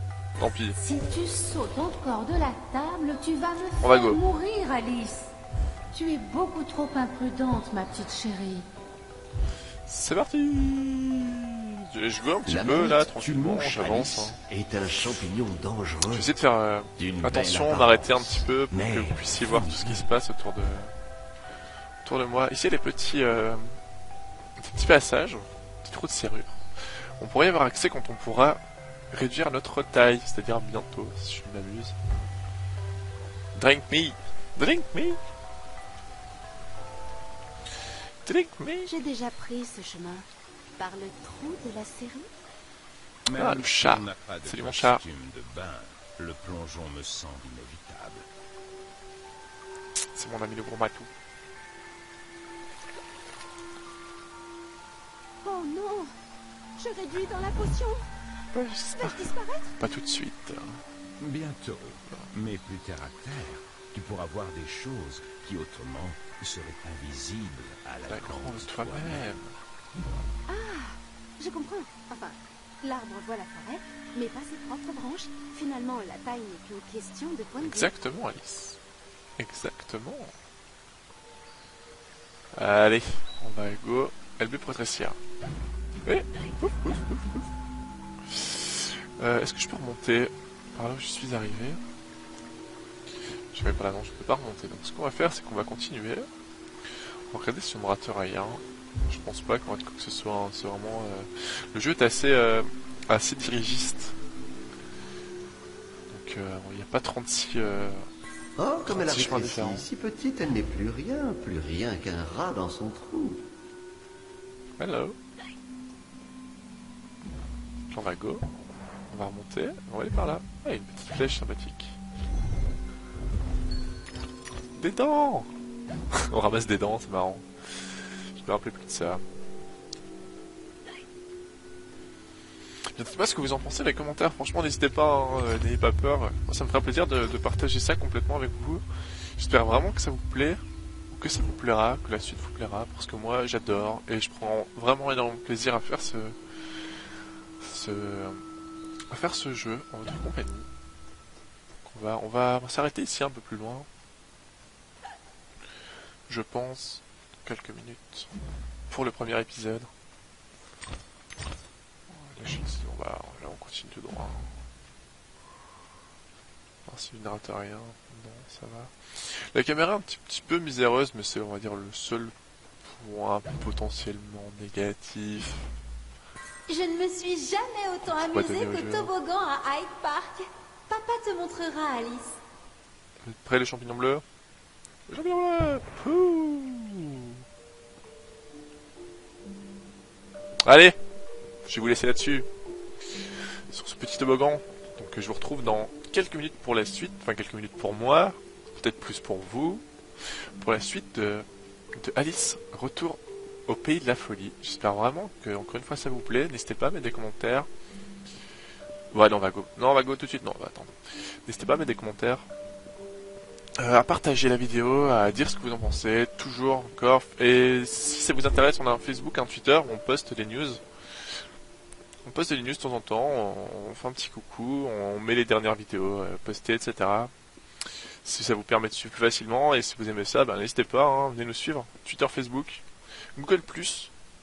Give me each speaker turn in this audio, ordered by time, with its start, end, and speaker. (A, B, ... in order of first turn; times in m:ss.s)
0:00.4-0:00.8 A
0:00.8-0:05.3 B
0:03.8-0:04.2 A
0:05.9-0:08.7 B
0:09.9-0:14.4 A
0:12.4-0:16.3 C
0:16.1-0:20.9 A
0:17.0-0:20.0 D
0:17.6-0:18.0 C
0:22.0-0:23.8 A
0:24.6-0:26.6 A
0:27.2-0:32.0 A
0:33.5-0:35.2 A
0:38.2-0:38.9 A
0:38.9-0:40.2 E
0:40.8-0:42.3 E
0:43.3-0:48.2 D
0:43.3-0:45.0 A
0:50.1-0:51.1 A
0:55.4-0:56.1 E
0:56.8-0:58.0 E
0:58.5-1:00.8 A
0:59.0-0:59.7 E
1:01.2-1:09.4 D
1:08.0-1:09.5 A
1:10.5-1:17.9 E
1:17.6-1:18.8 A
1:19.4-1:20.3 A
1:22.5-1:25.2 A
1:26.0-1:27.5 A
1:28.2-1:31.8 A
1:33.5-1:36.3 A
1:37.3-1:44.2 A
1:46.1-1:48.1 A
1:48.6-1:53.4 C
1:48.9-1:49.9 A
1:54.8-1:55.2 A
1:57.9-1:58.4 A
1:59.1-2:02.0 A
2:04.8-2:05.5 A
2:06.1-2:09.2 A
2:12.9-2:18.8 A
2:19.4-2:26.4 A
2:27.6-2:28.4 A
2:29.1-2:30.7 A
2:31.8-2:33.9 A
2:36.3-2:38.3 A
2:38.9-2:39.9 A
2:42.1-2:44.5 A
2:46.8-2:52.3 A
2:52.8-2:55.7 A
2:56.7-3:02.4 F
2:58.0-2:59.1 A
3:03.2-3:04.2 A
3:05.1-3:07.4 A
3:10.6-3:11.0 A
3:11.6-3:12.5 A
3:13.7-3:19.8 A
3:20.6-3:27.7 A
3:29.1-3:30.9 A
3:31.4-3:32.5 A
3:33.8-3:40.8 A
3:42.2-3:47.3 A
3:48.2-3:52.8 A
3:53.4-3:54.1 A